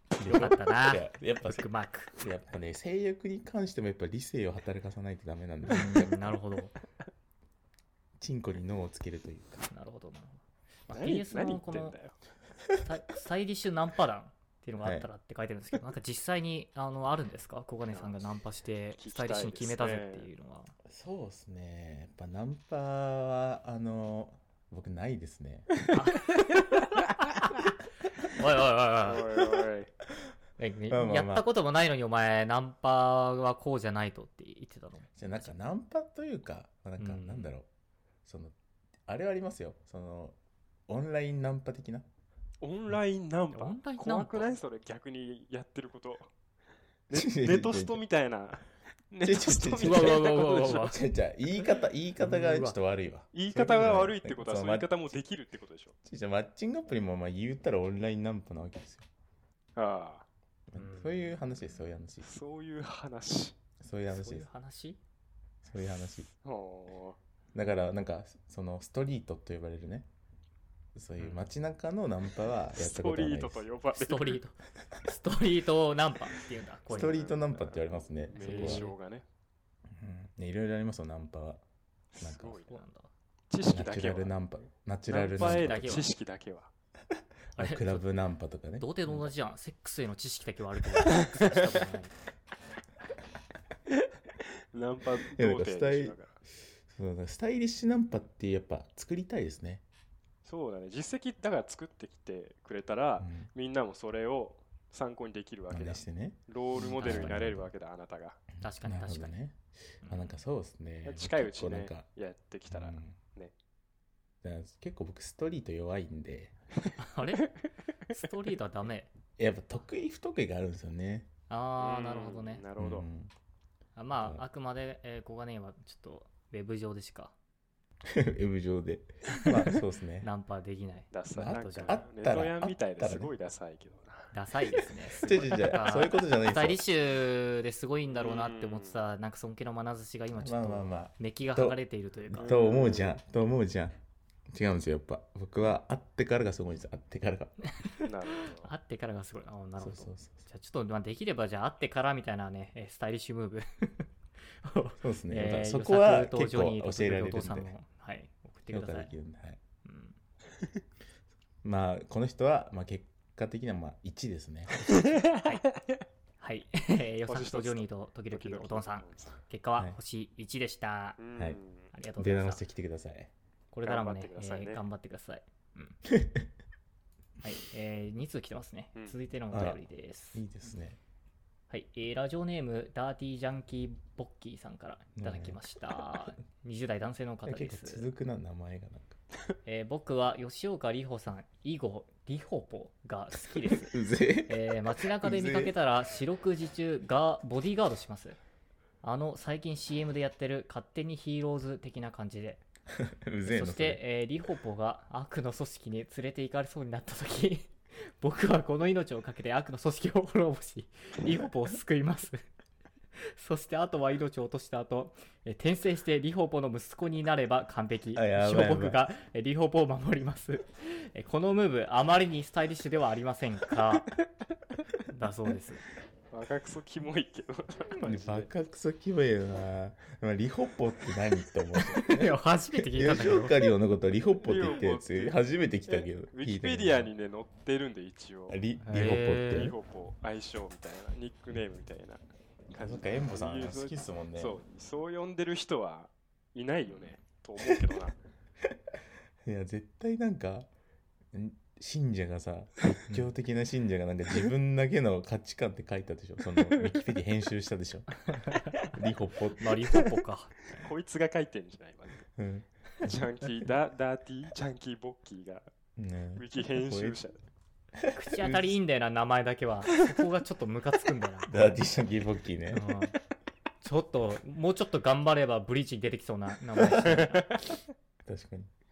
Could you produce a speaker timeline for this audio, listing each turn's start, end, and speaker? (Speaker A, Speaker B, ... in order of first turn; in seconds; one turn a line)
Speaker A: 0.2-6.4
Speaker B: 0.2-2.1
Speaker B: 5.7-6.7
Speaker A: 8.2-9.7
Speaker B: 9.7-12.0
Speaker C: 10.9-12.2
Speaker B: 12.8-20.7
Speaker A: 14.8-15.1
Speaker C: 19.0-20.3
Speaker A: 20.9-25.7
Speaker B: 25.9-26.4
Speaker B: 28.2-29.3
Speaker C: 29.0-29.9
Speaker B: 30.6-35.5
Speaker A: 30.9-31.4
Speaker A: 35.2-37.7
Speaker B: 37.0-37.5
Speaker A: 38.2-38.5
Speaker A: 39.1-40.4
Speaker A: 40.9-42.1
Speaker C: 42.6-46.3
Speaker B: 43.5-44.5
Speaker C: 47.1-50.9
Speaker A: 47.1-48.0
Speaker A: 49.2-54.9
Speaker B: 49.8-51.0
Speaker B: 52.2-52.8
Speaker C: 53.3-56.0
Speaker A: 56.0-59.1
Speaker C: 59.8-60.3
Speaker A: 60.7-62.3
Speaker B: 60.8-61.3
Speaker C: 62.2-63.6
Speaker A: 63.8-64.5
Speaker B: 64.1-65.0
Speaker A: 65.6-66.3
Speaker C: 66.4-67.2
Speaker A: 67.5-70.1
Speaker A: 71.0-73.7
Speaker C: 72.8-74.4
Speaker B: 74.0-77.2
Speaker A: 76.9-78.9
Speaker C: 76.9-79.2
Speaker B: 78.4-79.0
Speaker A: 79.9-81.6
Speaker C: 82.1-82.8
Speaker A: 82.2-82.6
Speaker B: 82.7-83.1
Speaker C: 83.5-84.3
Speaker A: 83.7-86.1
Speaker C: 85.1-86.7
Speaker B: 85.4-86.1
Speaker A: 87.5-89.3
Speaker B: 87.6-88.0
Speaker B: 88.8-92.1
Speaker C: 91.1-91.6
Speaker C: 94.7-96.4
Speaker A: 95.2-96.2
Speaker A: 96.8-99.8
Speaker C: 100.5-108.4
Speaker A: 103.2-103.5
Speaker A: 105.7-107.7
Speaker B: 106.8-107.5
Speaker B: 108.6-109.3
Speaker A: 108.8-112.1
Speaker B: 110.0-110.4
Speaker C: 111.0-113.5
Speaker A: 112.7-113.2
Speaker A: 114.4-116.5
Speaker B: 117.0-117.5
Speaker B: 118.1-119.1
Speaker A: 119.4-121.3
Speaker B: 121.5-122.7
Speaker C: 121.8-123.1
Speaker A: 122.8-123.3
Speaker B: 124.0-127.3
Speaker A: 128.1-130.3
Speaker B: 129.3-132.0
Speaker C: 131.1-134.9
Speaker A: 131.3-133.3
Speaker B: 134.3-142.5
Speaker A: 135.2-136.8
Speaker C: 138.1-139.0
Speaker A: 140.4-141.8
Speaker A: 142.3-144.0
Speaker C: 142.4-143.2
Speaker A: 144.5-147.6
Speaker B: 147.8-154.1
Speaker C: 148.0-148.7
Speaker A: 149.8-150.4
Speaker B: 154.6-159.1
Speaker A: 155.0-157.7
Speaker A: 158.7-159.6
Speaker B: 159.8-160.2
Speaker A: 161.6-165.0
Speaker C: 164.9-166.0
Speaker B: 166.4-171.2
Speaker C: 167.3-169.4
Speaker C: 171.2-171.9
Speaker B: 171.9-172.6
Speaker A: 172.2-173.3
Speaker B: 173.7-176.0
Speaker C: 173.8-174.8
Speaker A: 176.1-176.5
Speaker B: 177.4-180.4
Speaker A: 179.5-179.8
Speaker A: 180.3-181.0
Speaker B: 181.7-188.1
Speaker A: 185.2-186.2
Speaker A: 187.5-189.2
Speaker B: 189.7-198.4
Speaker A: 193.7-195.8
Speaker B: 199.0-202.6
Speaker A: 202.9-204.0
Speaker B: 203.5-212.4
Speaker B: 213.3-224.1
Speaker A: 218.1-219.0
Speaker B: 225.1-225.8
Speaker C: 226.3-228.5
Speaker A: 228.0-237.1
Speaker B: 231.9-233.6
Speaker C: 234.4-238.6
Speaker A: 238.5-239.8
Speaker B: 238.8-239.7
Speaker C: 239.5-248.2
Speaker A: 242.8-244.6
Speaker A: 249.4-250.7
Speaker A: 251.3-260.1
Speaker C: 256.6-257.0
Speaker B: 258.3-258.9
Speaker B: 259.6-260.9
Speaker C: 260.8-262.3
Speaker A: 262.4-263.1
Speaker C: 263.0-265.7
Speaker A: 266.0-267.2
Speaker C: 266.4-267.4
Speaker A: 268.0-268.8
Speaker B: 268.1-271.5
Speaker A: 271.5-272.9
Speaker B: 272.7-273.2
Speaker B: 273.8-277.6
Speaker A: 276.8-277.2
Speaker C: 277.1-277.4
Speaker A: 278.3-278.7